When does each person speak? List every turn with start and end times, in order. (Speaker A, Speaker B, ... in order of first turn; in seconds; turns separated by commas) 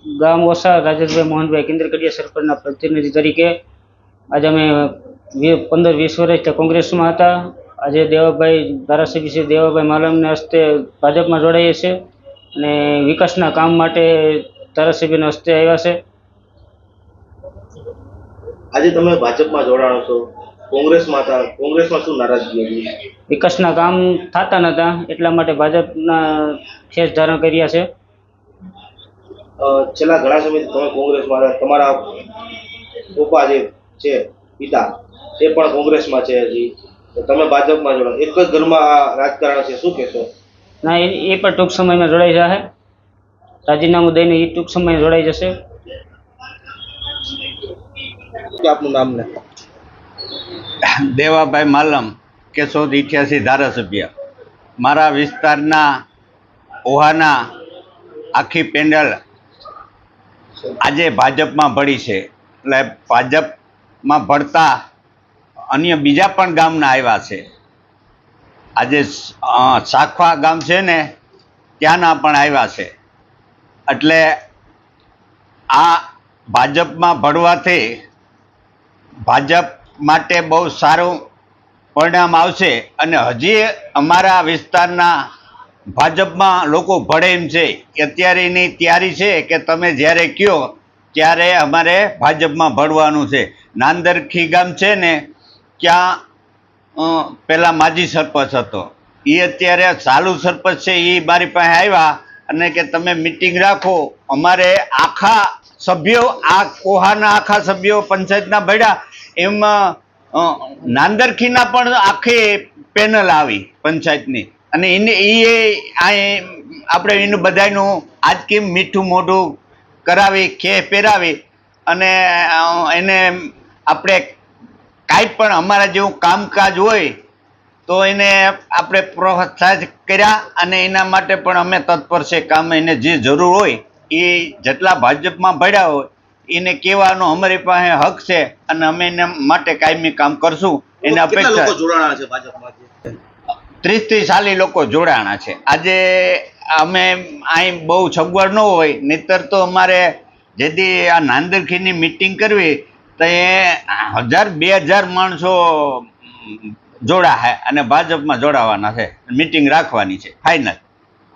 Speaker A: 0.2-3.5, Speaker A: 4.3-12.0, Speaker A: 12.6-16.0, Speaker B: 18.7-23.0, Speaker A: 23.3-27.9, Speaker B: 29.6-32.4, Speaker B: 33.1-40.3, Speaker A: 40.8-42.6, Speaker A: 43.7-45.5, Speaker B: 48.5-49.4, Speaker C: 50.8-54.1, Speaker C: 54.8-55.9, Speaker C: 56.9-57.4, Speaker C: 58.4-59.2, Speaker C: 60.8-64.7, Speaker C: 65.7-67.4, Speaker C: 68.8-71.1, Speaker C: 71.8-72.9, Speaker C: 73.9-74.3, Speaker C: 75.7-76.0, Speaker C: 76.5-77.8, Speaker C: 79.3-81.2, Speaker C: 82.0-85.1, Speaker C: 86.0-95.2, Speaker C: 95.8-96.2, Speaker C: 97.0-121.4, Speaker C: 121.9-124.4, Speaker C: 125.1-127.1, Speaker C: 127.9-141.7, Speaker B: 141.0-143.2, Speaker C: 143.8-160.8